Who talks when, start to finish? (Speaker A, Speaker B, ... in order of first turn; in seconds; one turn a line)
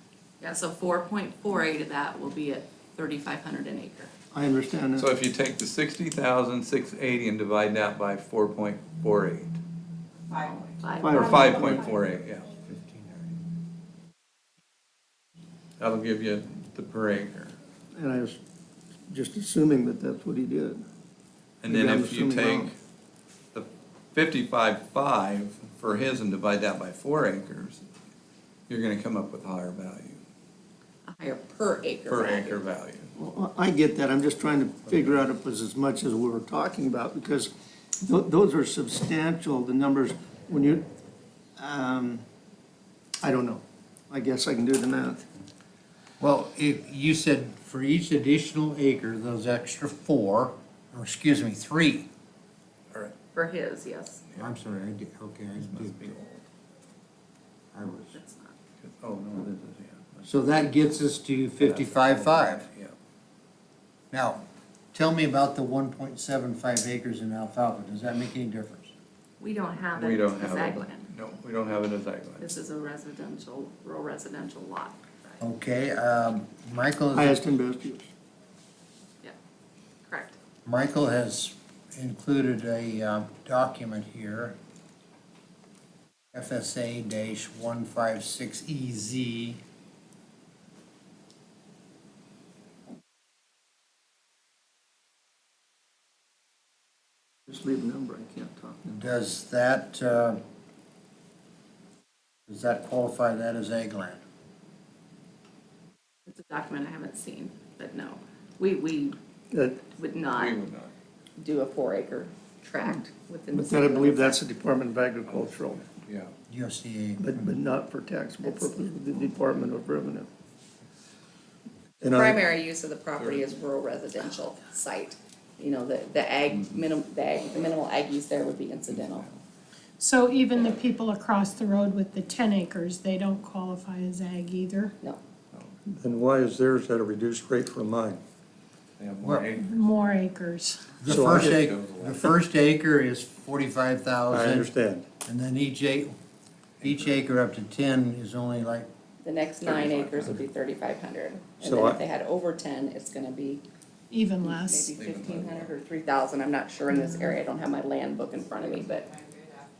Speaker A: 0.4-4.1
Speaker B: 4.3-5.1
Speaker C: 5.0-9.6
Speaker A: 10.3-11.5
Speaker B: 11.0-11.9
Speaker C: 11.1-12.5
Speaker D: 12.7-13.4
Speaker C: 15.8-17.6
Speaker B: 17.9-18.4
Speaker B: 19.1-20.8
Speaker C: 21.6-22.8
Speaker B: 21.7-22.7
Speaker C: 23.5-27.9
Speaker C: 28.7-30.2
Speaker A: 31.1-32.6
Speaker C: 32.1-33.1
Speaker B: 33.1-40.9
Speaker B: 41.6-42.2
Speaker B: 43.2-45.2
Speaker D: 46.2-52.1
Speaker A: 53.3-54.2
Speaker D: 54.4-56.1
Speaker C: 55.6-56.5
Speaker D: 57.7-58.2
Speaker A: 58.1-58.6
Speaker C: 58.8-60.3
Speaker D: 60.2-62.7
Speaker C: 61.6-63.0
Speaker D: 64.1-64.4
Speaker D: 64.9-68.9
Speaker A: 69.4-71.1
Speaker C: 69.9-72.5
Speaker A: 72.4-75.5
Speaker D: 75.4-77.4
Speaker B: 77.1-78.1
Speaker A: 80.1-80.4
Speaker D: 80.7-84.6
Speaker D: 86.3-89.6
Speaker B: 97.5-99.0
Speaker D: 98.9-100.4
Speaker D: 102.5-104.2
Speaker A: 106.3-109.2
Speaker B: 109.5-109.8
Speaker A: 109.9-110.6
Speaker C: 110.3-110.9
Speaker A: 111.4-114.4
Speaker B: 113.5-115.9
Speaker C: 115.3-116.3
Speaker D: 116.5-117.6
Speaker B: 117.2-120.3
Speaker A: 118.4-118.7
Speaker B: 122.0-122.4
Speaker A: 122.1-129.3
Speaker C: 123.2-123.5
Speaker C: 128.9-129.4
Speaker E: 130.0-134.9
Speaker F: 135.9-138.2
Speaker C: 139.0-139.9
Speaker E: 139.6-141.0
Speaker D: 141.0-144.7
Speaker F: 141.1-141.6
Speaker C: 141.1-142.3
Speaker F: 144.3-145.1
Speaker D: 145.2-146.2
Speaker D: 146.8-148.9
Speaker A: 149.2-153.6
Speaker C: 149.6-150.4
Speaker F: 151.6-152.0
Speaker E: 154.1-155.0
Speaker A: 154.4-159.1
Speaker C: 155.0-155.7
Speaker E: 156.9-157.4